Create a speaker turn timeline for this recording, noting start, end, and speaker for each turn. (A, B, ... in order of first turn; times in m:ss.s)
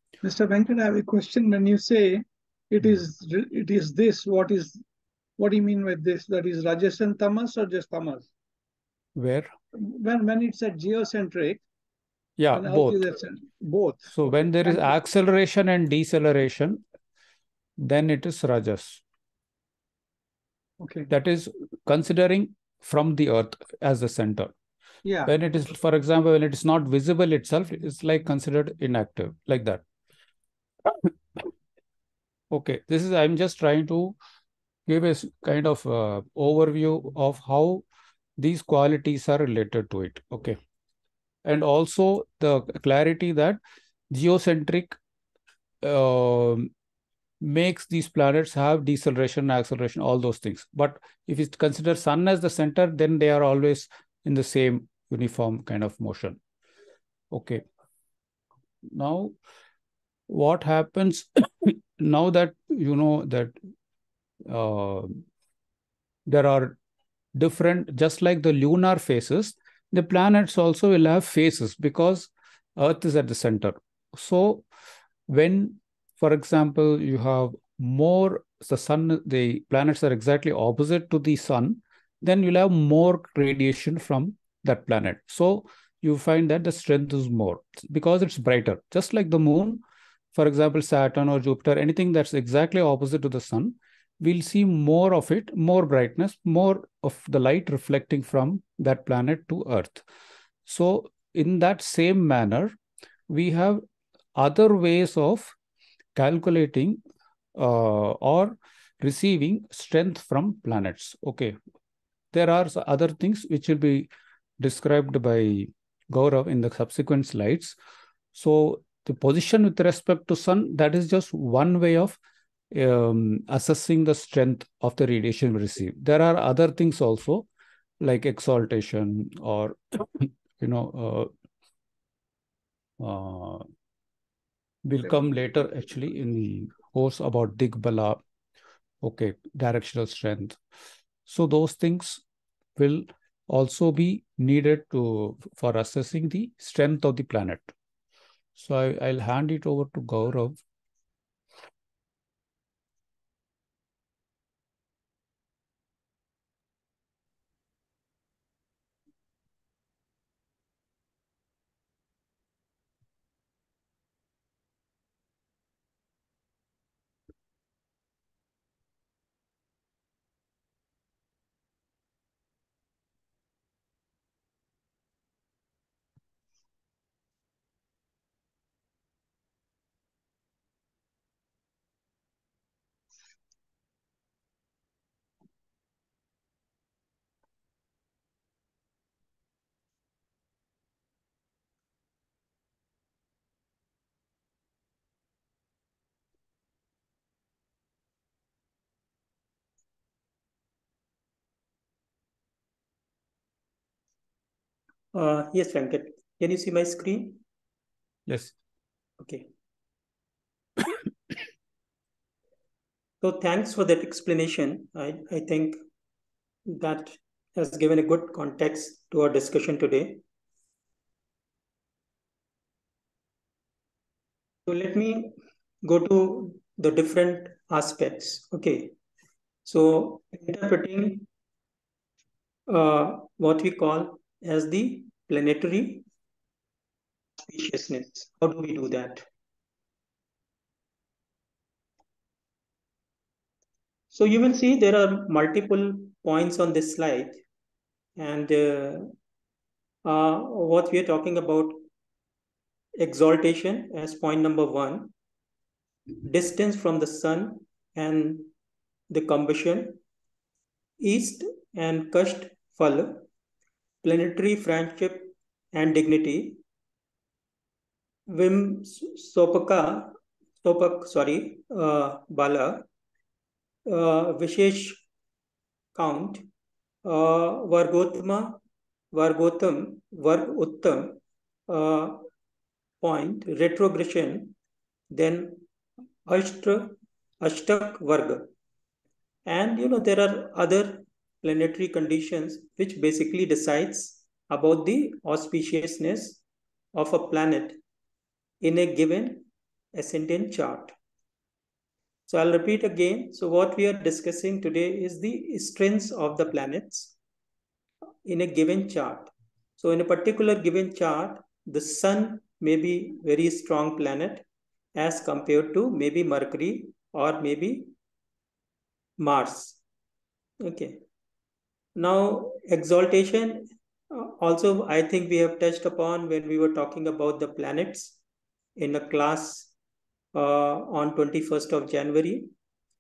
0:00.2-0:04.8 A
0:05.4-0:08.3 A
0:09.2-0:09.5 B
0:09.8-0:11.6 A
0:12.4-0:13.0 B
0:12.5-0:14.1 A
0:14.1-0:16.8 B
0:17.8-0:19.0 B
0:20.8-0:21.1 A
0:21.1-0:24.5 B
0:25.0-0:25.3 A
0:25.2-0:29.8 B
0:31.0-0:31.5 B
0:32.5-0:34.2 B
0:34.9-0:37.8 B
0:38.4-0:40.6 B
0:41.4-0:43.6 B
0:44.1-0:45.0 B
0:45.8-0:46.7 B
0:47.4-0:56.4 B
0:57.3-0:57.6 B
0:58.8-0:59.3 B
1:00.3-1:03.6 B
1:04.5-1:05.2 B
1:06.3-1:06.8 B
1:07.4-1:14.7 B
1:15.3-1:29.8 B
1:30.3-1:40.0 B
1:40.7-1:42.8 B
1:43.3-1:43.8 B
1:44.4-1:45.6 B
1:46.2-1:47.0 B
1:47.6-1:51.6 B
1:52.3-1:54.1 B
1:54.6-1:57.8 B
1:58.3-2:02.2 B
2:02.7-2:07.5 B
2:08.0-2:11.3 B
2:13.0-2:13.7 B
2:14.8-2:18.2 B
2:19.0-2:20.6 B
2:21.3-2:22.2 B
2:22.8-2:27.7 B
2:28.6-2:30.6 B
3:25.1-3:27.4 C
3:28.3-3:28.5 B
3:29.2-3:29.5 C
3:33.2-3:35.8 C
3:36.7-3:40.2 C
3:44.7-3:48.9 C
3:49.7-3:51.3 C
3:52.7-3:56.1 C
3:57.4-3:59.2 C
4:04.1-4:07.4 C
4:08.2-4:09.1 C
4:10.0-4:11.8 C
4:13.0-4:15.1 C
4:16.2-4:18.5 C
4:19.1-4:20.0 C
4:21.0-4:23.2 C
4:24.0-4:26.6 C
4:28.3-4:32.9 C
4:33.9-4:35.0 C
4:36.0-4:36.5 C
4:37.0-4:38.6 C
4:39.1-4:42.3 C
4:43.0-4:44.6 C
4:45.1-4:45.6 C
4:46.3-4:48.5 C
4:49.5-4:56.4 C
4:57.0-4:57.8 C
4:58.6-5:00.9 C
5:02.3-5:07.2 C
5:08.2-5:17.9 C
5:19.2-5:19.8 C
5:20.6-5:21.0 C
5:22.0-5:28.2 C
5:28.8-5:29.7 C
5:30.3-5:32.5 C